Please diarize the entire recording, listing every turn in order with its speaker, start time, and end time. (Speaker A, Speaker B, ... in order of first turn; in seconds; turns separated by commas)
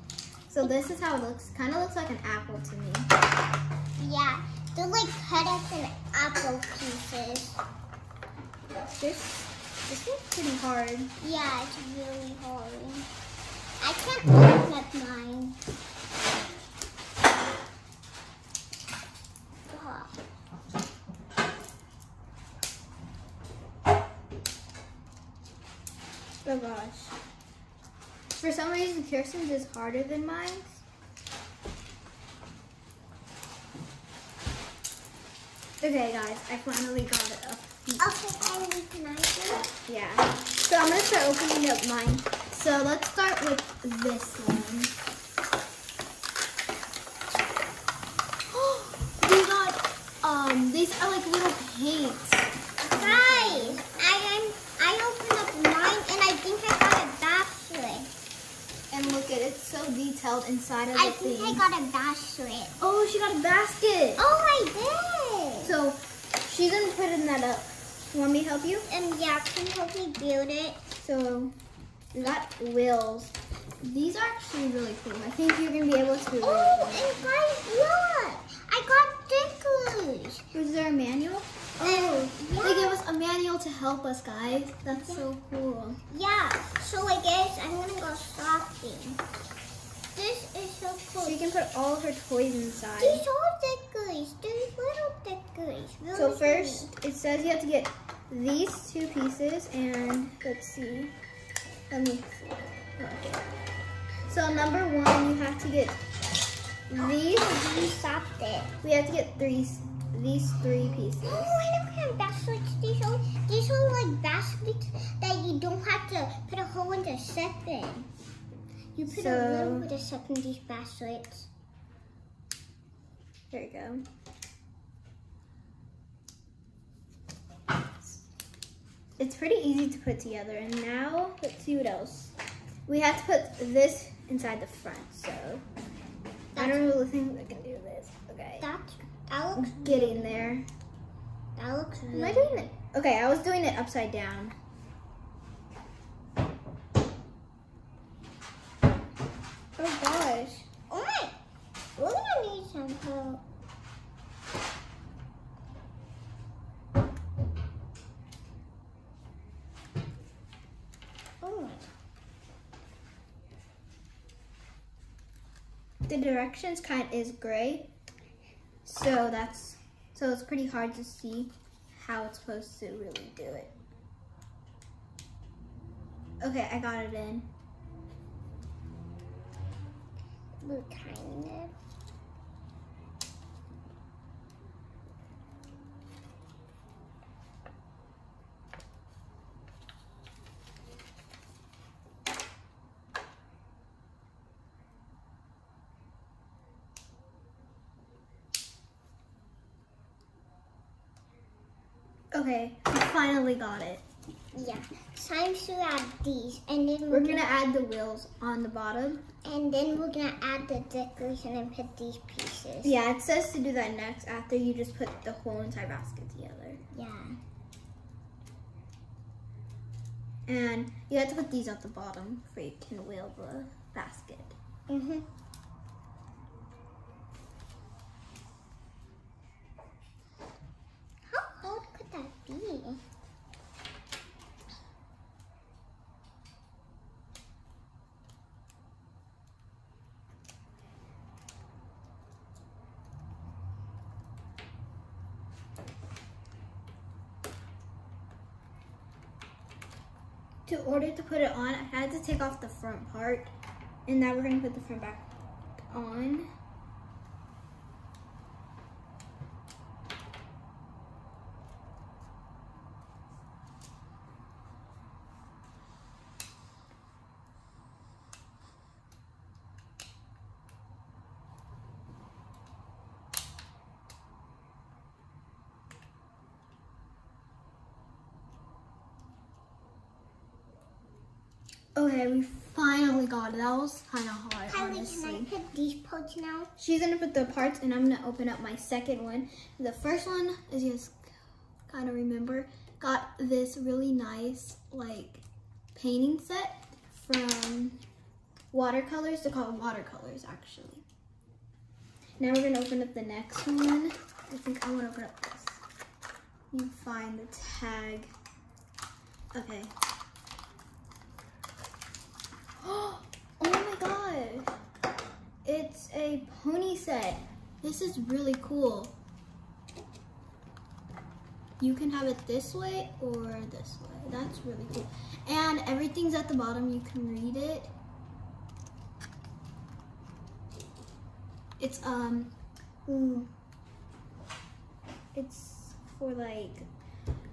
Speaker A: 0.5-3.1, Speaker B: 4.0-7.6, Speaker A: 8.8-11.1, Speaker B: 11.2-13.1, Speaker B: 13.8-15.6, Speaker B: 19.7-20.2, Speaker A: 26.4-27.1, Speaker A: 28.3-30.8, Speaker A: 35.8-38.6, Speaker B: 38.0-39.7, Speaker A: 39.9-44.9, Speaker A: 48.5-53.8, Speaker B: 52.9-58.1, Speaker A: 58.9-61.6, Speaker B: 60.9-62.8, Speaker A: 62.8-64.2, Speaker B: 64.2-65.7, Speaker A: 65.6-68.9, Speaker B: 68.9-70.8, Speaker A: 71.0-71.5, Speaker A: 72.1-77.2, Speaker B: 76.4-80.5, Speaker A: 80.5-86.0, Speaker B: 81.8-83.0, Speaker B: 84.9-85.2, Speaker B: 86.1-89.2, Speaker B: 90.1-91.5, Speaker A: 91.2-93.2, Speaker B: 93.0-96.9, Speaker A: 96.1-101.1, Speaker A: 101.9-103.4, Speaker A: 104.3-106.0, Speaker A: 106.9-107.5, Speaker B: 106.9-108.7, Speaker A: 108.8-111.6, Speaker B: 111.2-118.1, Speaker B: 118.9-121.5, Speaker A: 119.1-119.9, Speaker A: 123.5-124.0, Speaker A: 129.2-132.3, Speaker A: 132.9-135.6, Speaker B: 136.5-136.9, Speaker A: 136.6-138.7, Speaker B: 138.6-140.6, Speaker A: 139.5-140.7, Speaker B: 141.6-142.7, Speaker A: 142.1-144.6, Speaker A: 149.8-150.7, Speaker B: 150.9-151.3, Speaker B: 152.0-153.4, Speaker B: 161.4-161.8, Speaker A: 166.1-167.9, Speaker A: 168.8-173.7, Speaker A: 176.4-177.5, Speaker B: 180.6-181.7, Speaker A: 202.3-204.0, Speaker B: 204.5-207.5, Speaker A: 207.1-209.2, Speaker B: 209.4-212.9, Speaker A: 212.8-216.8, Speaker B: 216.9-217.4, Speaker A: 220.4-224.6, Speaker B: 224.9-225.2, Speaker B: 231.3-233.0, Speaker A: 250.7-253.5, Speaker A: 254.1-255.3, Speaker A: 255.9-256.5, Speaker A: 281.9-285.5, Speaker B: 284.7-286.7, Speaker A: 286.8-291.3, Speaker A: 291.9-295.4, Speaker A: 295.9-298.0, Speaker A: 298.7-301.0, Speaker A: 302.4-305.8, Speaker A: 306.7-308.3, Speaker A: 309.5-309.9, Speaker A: 312.8-314.7, Speaker A: 315.6-319.1, Speaker A: 321.8-327.9, Speaker A: 331.8-332.5, Speaker A: 333.1-333.5, Speaker A: 335.3-336.9